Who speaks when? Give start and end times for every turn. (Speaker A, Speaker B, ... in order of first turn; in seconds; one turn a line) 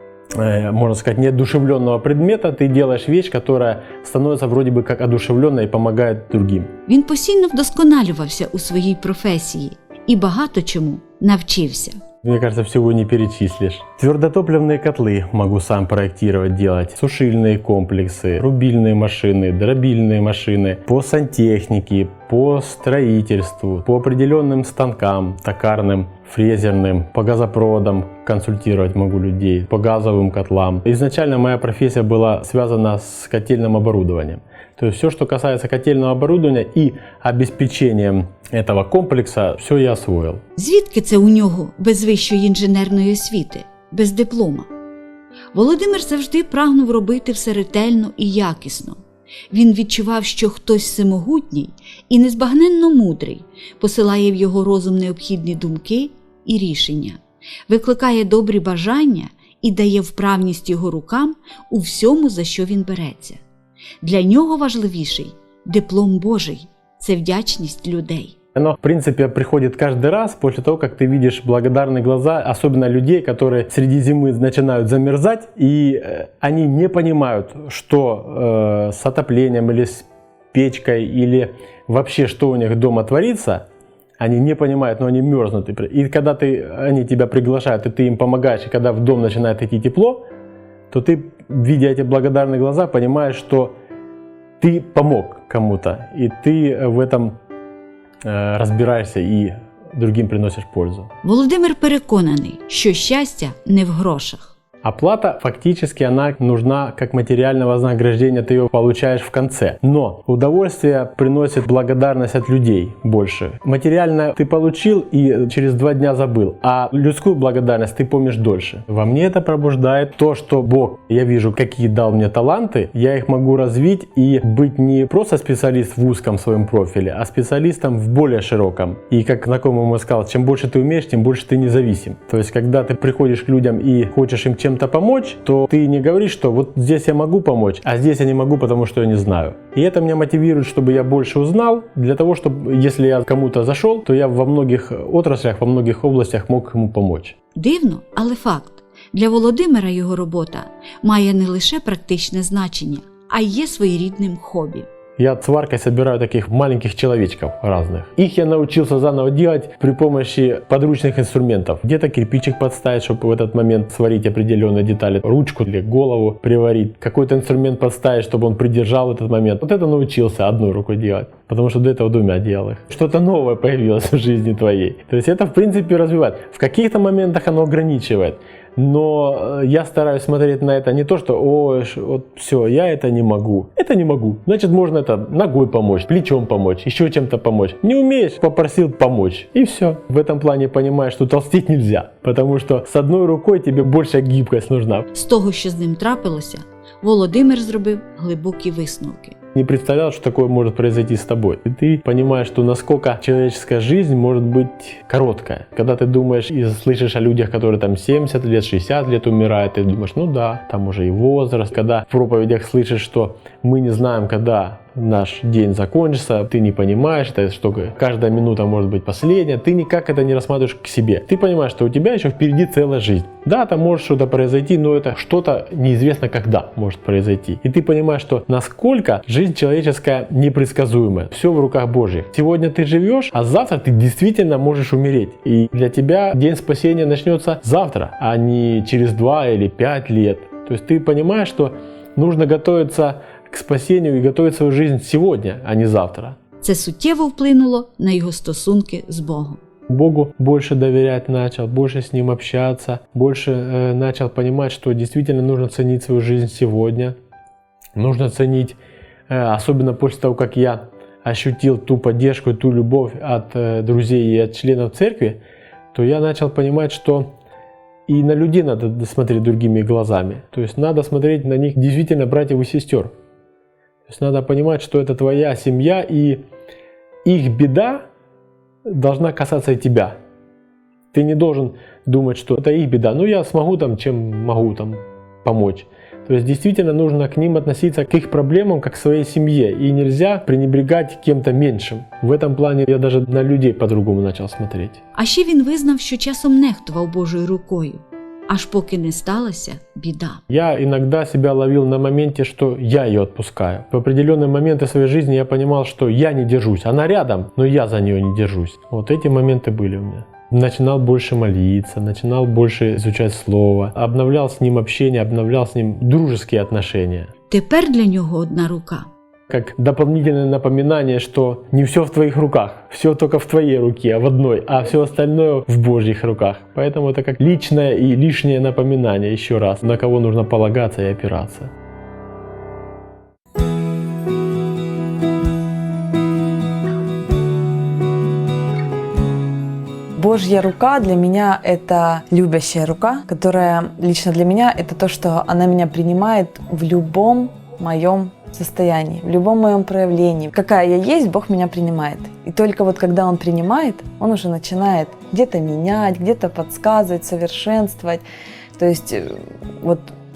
Speaker A: 0.3-6.7
Speaker B: 6.9-12.0
Speaker A: 12.2-40.4
Speaker B: 40.5-44.7
Speaker B: 45.5-49.0
Speaker B: 49.5-63.4
Speaker B: 64.0-68.3
Speaker A: 68.5-83.7
Speaker A: 84.2-90.2
Speaker A: 90.9-93.8
Speaker A: 94.6-97.3
Speaker A: 98.2-101.1
Speaker B: 101.2-104.5
Speaker A: 104.8-147.3
Speaker B: 147.5-154.9
Speaker A: 155.2-195.1
Speaker B: 195.1-199.4
Speaker A: 199.5-246.4
Speaker B: 246.6-249.6
Speaker A: 249.9-257.1
Speaker A: 257.9-258.8
Speaker A: 259.3-265.4
Speaker A: 265.9-267.3
Speaker A: 268.1-273.1
Speaker A: 274.1-276.4
Speaker A: 277.2-278.1
Speaker A: 278.9-280.2
Speaker A: 281.1-295.0
Speaker B: 295.1-300.4
Speaker A: 300.5-317.3
Speaker B: 317.5-319.1
Speaker A: 319.5-331.7
Speaker C: 340.1-358.2
Speaker C: 358.8-360.1